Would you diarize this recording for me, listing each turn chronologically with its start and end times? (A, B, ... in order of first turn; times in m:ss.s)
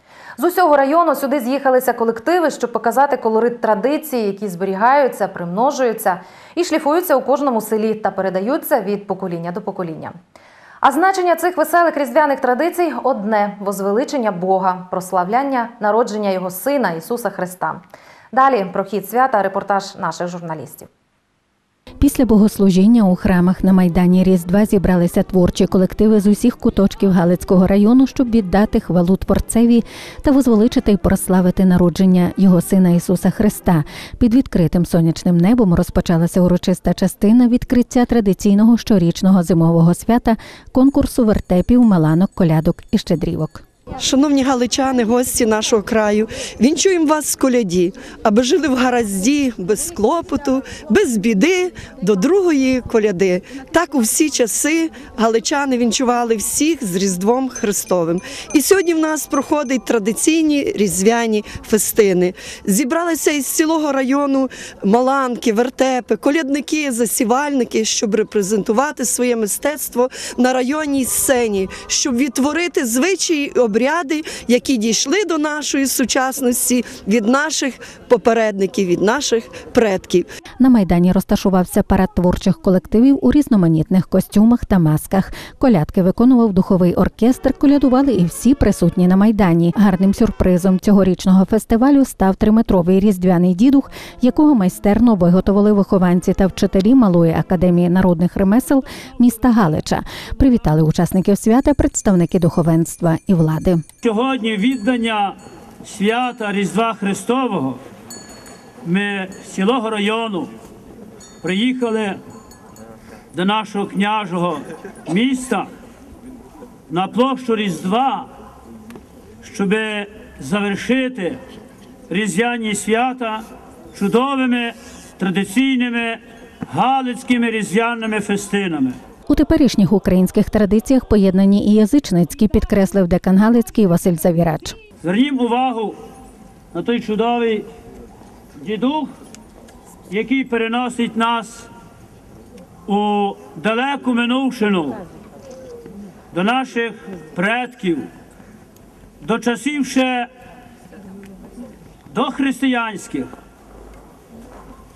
0:00.4-0:10.2 A
0:10.8-0:20.9 A
0:22.0-0:43.6 B
0:44.0-1:20.2 C
1:20.6-1:43.8 B
1:44.0-1:47.8 D
1:48.8-1:50.5 D
1:51.4-1:52.2 D
1:53.3-1:55.7 D
1:56.9-1:58.3 D
1:59.4-2:01.4 D
2:02.1-2:09.0 D
2:09.3-2:14.8 B
2:15.0-2:16.0 D
2:16.7-2:17.6 D
2:18.6-2:19.1 D
2:20.1-2:21.7 D
2:22.9-2:25.0 D
2:26.3-2:28.1 D
2:29.2-2:30.3 D
2:32.1-2:33.3 D